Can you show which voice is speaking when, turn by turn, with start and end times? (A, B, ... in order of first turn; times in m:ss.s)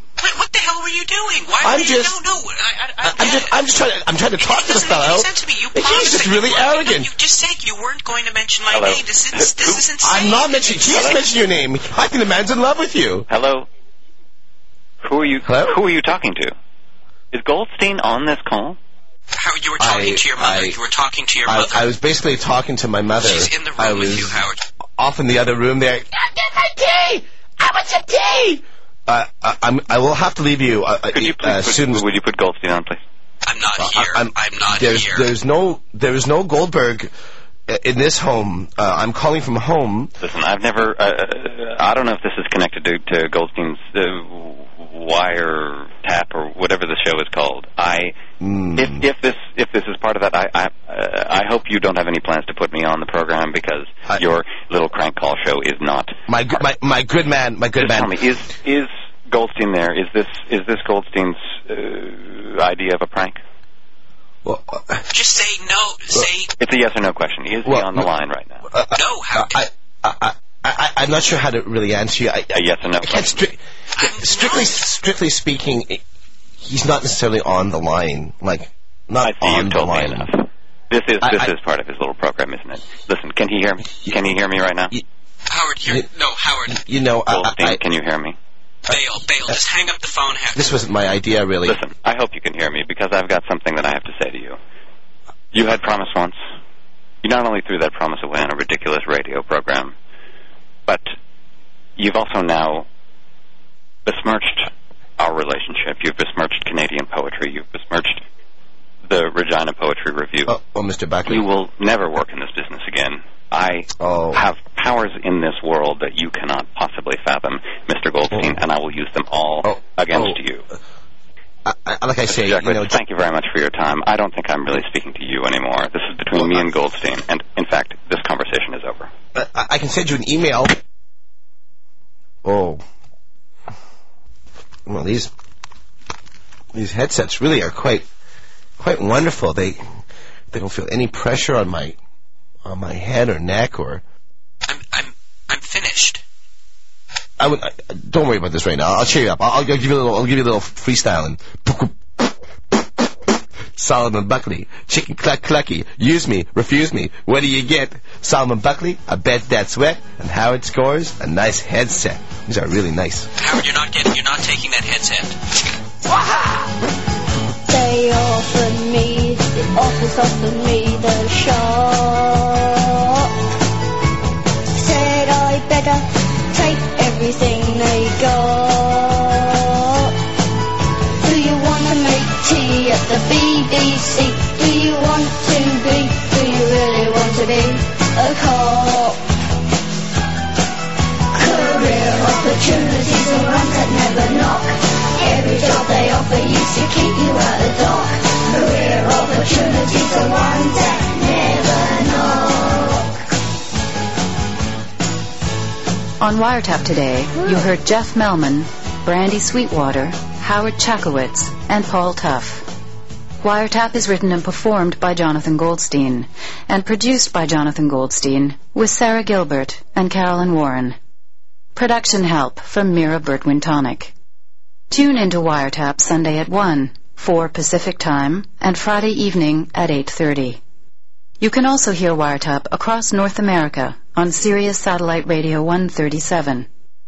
0:00.2-0:03.6 A
0:01.6-0:02.2 B
0:03.0-0:07.1 B
0:04.4-0:11.1 A
0:08.7-0:09.8 C
0:10.0-0:13.3 B
0:10.8-0:11.2 C
0:13.3-0:13.7 C
0:15.0-0:16.5 C
0:15.4-0:15.8 B
0:17.3-0:18.8 C
0:19.3-0:21.9 A
0:19.8-0:20.8 B
0:21.5-0:24.4 B
0:23.2-0:24.6 A
0:25.0-0:32.0 B
0:31.1-0:33.0 C
0:33.4-0:35.3 A
0:33.8-0:37.1 B
0:37.7-0:40.1 B
0:40.2-0:48.1 C
0:48.4-0:49.0 B
0:48.8-0:56.6 C
0:56.3-0:58.1 B
0:57.8-1:03.4 C
1:04.4-1:05.0 B
1:05.1-1:06.5 A
1:06.6-1:08.6 C
1:07.6-1:08.0 B
1:08.7-1:16.0 B
1:08.9-1:09.6 A
1:12.5-1:13.4 C
1:14.0-1:14.7 A
1:16.6-1:20.3 B
1:19.2-1:24.9 C
1:21.2-1:21.5 B
1:25.5-1:26.8 A
1:26.7-1:27.8 B
1:27.3-1:28.4 C
1:28.9-1:30.8 A
1:30.5-1:31.8 B
1:31.6-1:34.6 C
1:35.5-1:36.4 C
1:37.2-1:39.9 C
1:42.0-1:42.8 C
1:44.0-1:48.2 C
1:49.0-1:50.5 C
1:50.5-1:51.4 B
1:51.3-2:00.6 C
1:54.0-1:54.4 B
1:59.6-2:00.4 B
2:01.6-2:03.0 B
2:02.3-2:09.1 C
2:09.3-2:10.8 B
2:12.4-2:12.8 B
2:14.9-2:15.3 B
2:16.7-2:18.0 B
2:18.8-2:19.8 B
2:20.5-2:22.0 B
2:22.6-2:24.0 B
2:24.6-2:26.2 A
2:27.4-2:32.0 B
2:33.8-2:43.3 B
2:43.4-2:45.4 A
2:47.7-2:53.3 D
2:54.8-3:00.1 D
3:01.2-3:09.2 D
3:11.3-3:23.1 D
3:26.2-3:32.7 E
3:33.4-3:41.0 E
3:41.7-3:44.1 E
3:44.9-3:50.6 E
3:51.4-3:56.7 E